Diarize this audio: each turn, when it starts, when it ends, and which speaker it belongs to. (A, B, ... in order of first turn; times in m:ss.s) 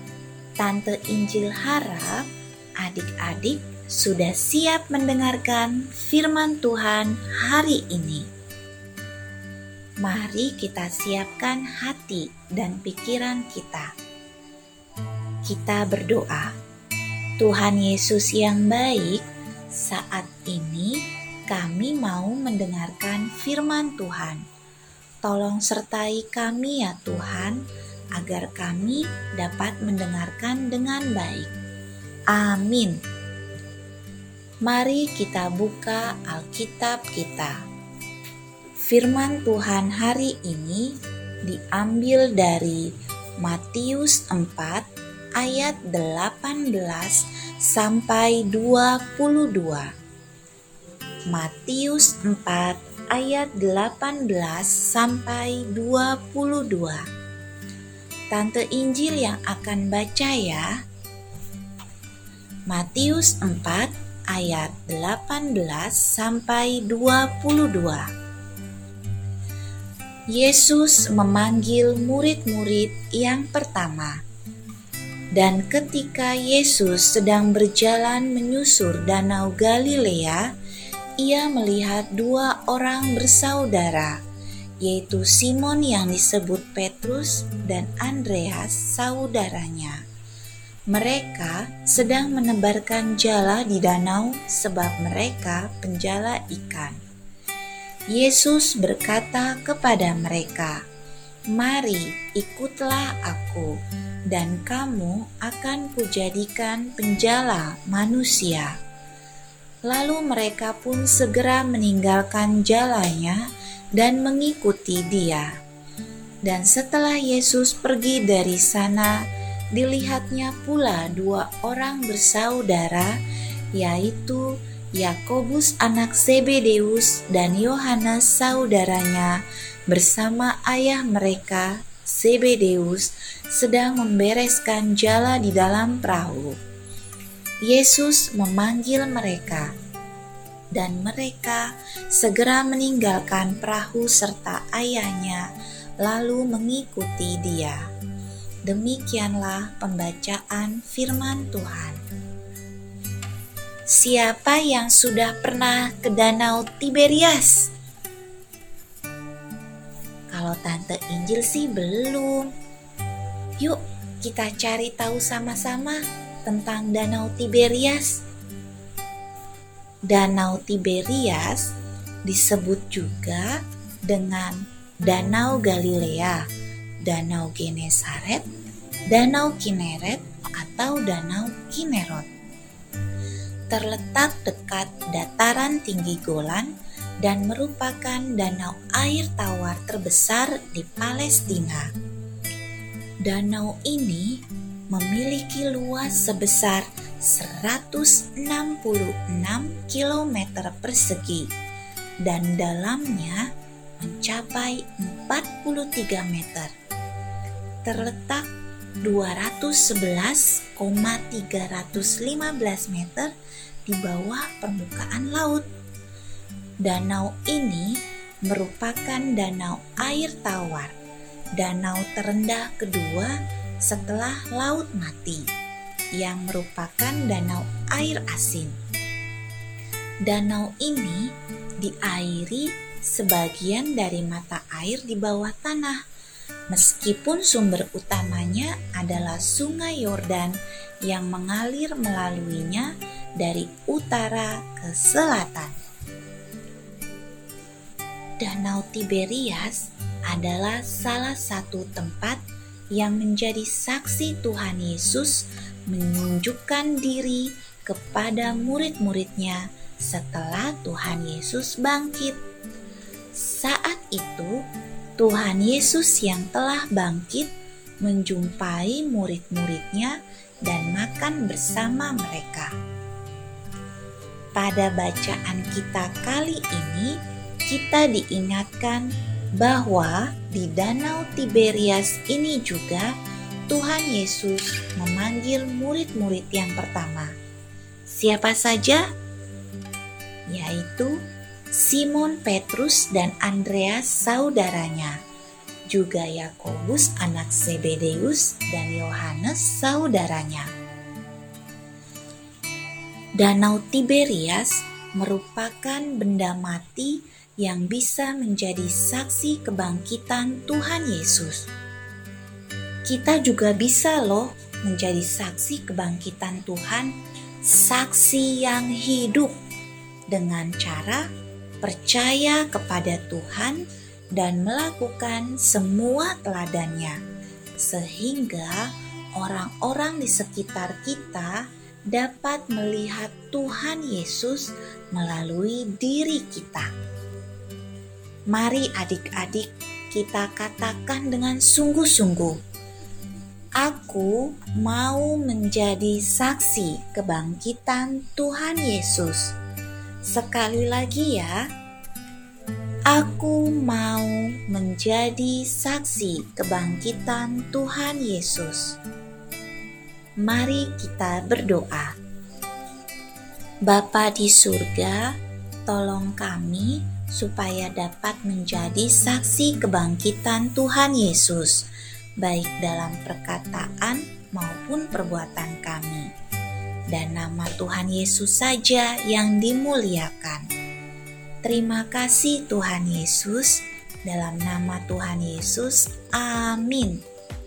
0:00.6-0:02.2 A
0:02.8-0:08.2 A
0:10.0-0:13.9 A
0:15.4-0:16.5 A
0:17.4-0:24.4 A
0:25.2-0:27.6 A
0:28.1-0:31.6 A
0:32.3-0:33.0 A
0:34.6-0:37.6 A
0:38.9-0:42.9 A
0:43.4-0:44.8 A
0:45.4-0:49.9 A
0:51.3-0:57.0 A
0:58.3-1:00.7 A
1:02.7-1:08.1 A
1:10.3-1:14.2 A
1:15.4-1:20.4 A
1:21.2-1:24.2 A
1:24.8-1:30.0 A
1:30.9-1:37.0 A
1:38.1-1:40.8 A
1:41.5-1:43.7 A
1:44.3-1:48.7 A
1:49.9-1:53.4 A
1:54.0-1:55.5 A
1:56.4-1:59.2 A
1:59.7-2:03.2 A
2:03.7-2:16.6 A
2:17.6-2:19.7 A
2:20.8-2:25.4 A
2:26.0-2:27.8 A
2:28.7-2:32.0 A
2:33.9-2:37.7 A
2:40.3-2:42.5 A
2:43.6-2:48.2 A
2:50.1-2:51.7 A
2:52.2-2:53.6 A
2:54.1-2:56.4 A
2:57.0-2:58.5 A
2:59.1-3:02.3 A
3:03.7-3:06.7 A
3:07.2-3:11.9 A
3:13.2-3:14.4 A
3:14.9-3:21.5 A
3:22.2-3:23.5 A
3:24.0-3:26.7 A
3:27.8-3:28.5 A
3:29.0-3:33.3 A
3:33.9-3:35.7 A
3:36.8-3:40.9 A
3:41.6-3:45.5 A
3:46.1-3:48.8 A
3:50.2-3:51.3 A
3:51.8-3:56.0 A
3:56.7-4:05.8 A
4:08.4-4:12.4 A
4:12.9-4:22.4 A
4:23.4-4:24.6 A
4:25.2-4:27.5 A
4:28.0-4:30.2 A
4:30.7-4:32.7 A
4:34.6-4:37.2 A
4:37.7-4:39.1 A
4:39.6-4:43.1 A
4:43.7-4:47.3 A
4:48.1-4:49.0 A
4:50.5-4:51.2 A
4:51.7-4:55.2 A
4:55.9-5:00.7 A
5:03.4-5:11.7 A
5:13.1-5:17.1 A
5:17.6-5:19.5 A
5:20.3-5:21.2 A
5:21.8-5:23.8 A
5:24.4-5:27.2 A
5:27.8-5:31.6 A
5:32.1-5:36.9 A
5:38.5-5:42.6 A
5:43.8-5:49.5 A
5:50.3-5:51.6 A
5:53.1-5:58.9 A
6:00.4-6:02.1 A
6:03.9-6:05.3 A
6:05.9-6:11.8 A
6:12.4-6:16.3 A
6:17.1-6:20.7 A
6:21.6-6:27.2 A